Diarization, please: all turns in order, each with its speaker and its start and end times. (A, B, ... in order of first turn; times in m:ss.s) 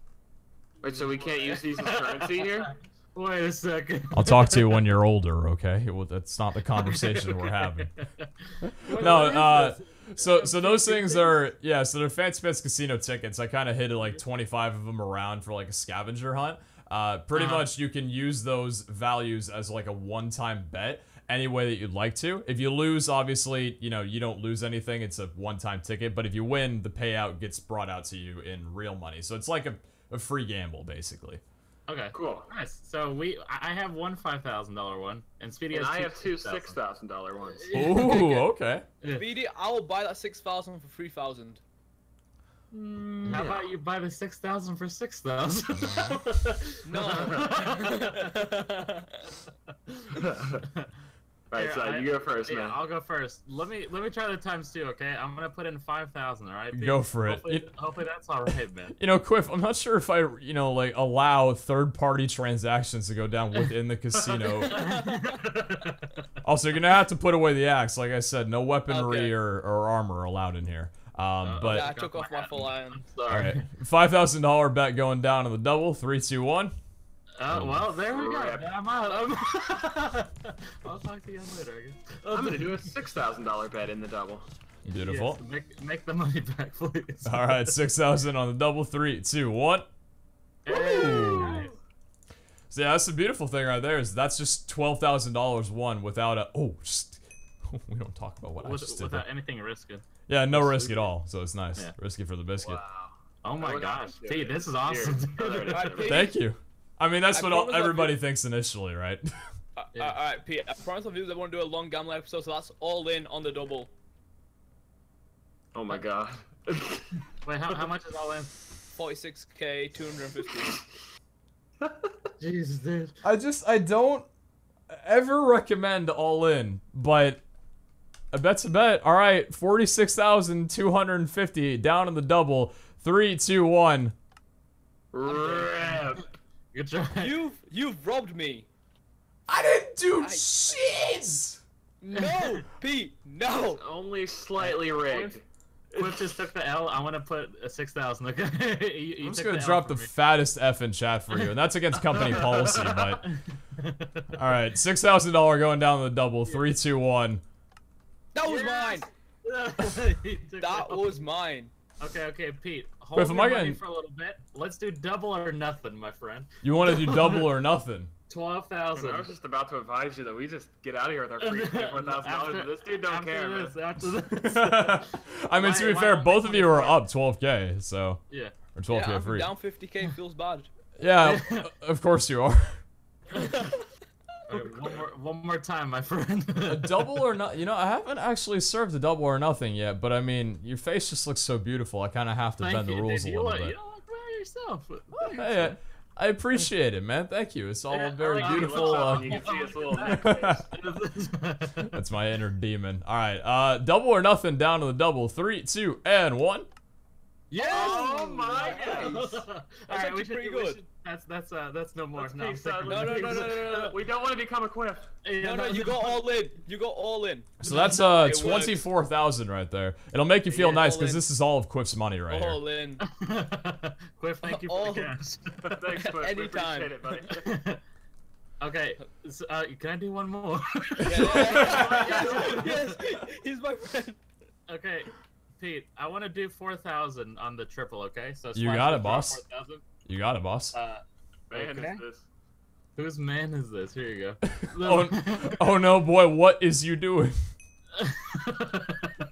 0:00.8-0:02.7 A
0:00.8-0:04.8 B
0:04.1-0:07.9 C
0:06.8-0:11.4 B
0:09.0-0:31.4 C
0:17.3-0:17.7 B
0:31.9-0:36.8 B
0:32.1-0:32.5 A
0:35.7-0:37.7 A
0:37.6-0:38.3 B
0:37.7-0:38.8 C
0:38.0-0:38.3 D
0:39.0-0:39.3 B
0:39.0-0:41.6 D
0:42.7-0:43.7 A
0:43.3-0:48.2 B
0:45.8-0:46.1 C
0:46.8-0:49.2 D
0:50.1-0:50.6 A
0:51.5-0:52.8 A
0:51.5-0:59.0 B
0:56.7-0:57.7 C
0:59.0-1:04.8 C
1:04.7-1:06.1 B
1:04.7-1:05.4 D
1:06.4-1:11.9 C
1:08.9-1:09.3 D
1:11.4-1:13.6 B
1:11.6-1:13.0 D
1:13.3-1:16.7 C
1:17.4-1:22.9 B
1:17.5-1:17.9 C
1:18.1-1:18.7 A
1:22.3-1:24.5 A
1:24.9-1:25.4 C
1:25.0-1:27.7 B
1:27.2-1:29.9 C
1:30.6-1:31.8 B
1:30.7-1:31.7 C
1:32.7-1:39.2 C
1:38.6-1:41.1 B
1:40.3-1:42.8 C
1:42.6-1:46.2 A
1:43.4-1:46.1 B
1:45.7-1:46.4 D
1:46.0-1:49.3 C
1:47.3-1:48.2 D
1:49.8-1:53.9 D
1:55.7-1:57.1 A
1:57.4-1:58.5 B
1:59.0-2:00.8 D
2:02.4-2:03.1 B
2:03.2-2:04.2 C
2:04.9-2:07.4 C
2:08.3-2:14.1 C
2:15.1-2:16.2 A
2:15.3-2:16.2 B
2:15.3-2:15.6 D
2:16.7-2:17.4 B
2:17.2-2:18.7 D
2:19.5-2:21.6 C
2:20.2-2:20.8 D
2:22.0-2:23.8 D
2:22.1-2:22.6 B
2:23.6-2:25.4 A
2:24.6-2:25.4 D
2:25.9-2:30.1 B
2:29.2-2:33.2 C
2:32.1-2:34.4 B
2:34.3-2:37.4 C
2:38.3-2:39.1 D
2:38.4-2:41.1 B
2:40.6-2:41.7 D
2:42.0-2:47.4 B
2:43.1-2:43.8 C
2:46.6-2:48.1 C
2:48.3-2:49.3 B
2:48.9-2:53.8 A
2:51.4-2:57.0 B
2:54.3-2:58.2 C
2:58.8-2:59.5 C
2:58.9-3:00.7 D
3:01.0-3:02.8 C
3:01.2-3:01.7 B
3:03.4-3:03.7 B
3:03.4-3:03.8 D
3:04.5-3:07.2 B
3:06.6-3:13.8 C
3:12.6-3:15.7 B
3:15.1-3:19.4 C
3:17.9-3:22.0 B
3:18.2-3:20.7 A
3:20.1-3:20.6 C
3:21.9-3:26.7 C
3:27.5-3:30.8 D
3:27.5-3:33.9 B
3:27.6-3:29.2 A
3:32.2-3:35.1 A
3:32.8-3:33.9 D
3:35.2-3:36.2 B
3:35.4-3:38.8 D
3:37.6-3:42.6 C
3:37.6-3:38.4 B
3:40.5-3:41.2 D
3:42.3-3:43.0 D
3:43.1-3:45.8 B
3:44.4-3:45.2 D
3:45.7-3:47.6 A
3:45.9-3:47.1 D
3:47.4-3:47.8 B
3:48.6-3:53.0 B
3:51.0-3:54.2 D
3:51.2-3:52.7 A
3:51.5-3:51.9 C
3:54.7-3:59.8 B
3:58.5-3:59.4 C
4:00.0-4:00.8 C
4:00.7-4:02.0 B
4:01.5-4:02.2 A
4:03.0-4:05.6 B
4:04.4-4:07.4 C
4:08.0-4:09.1 B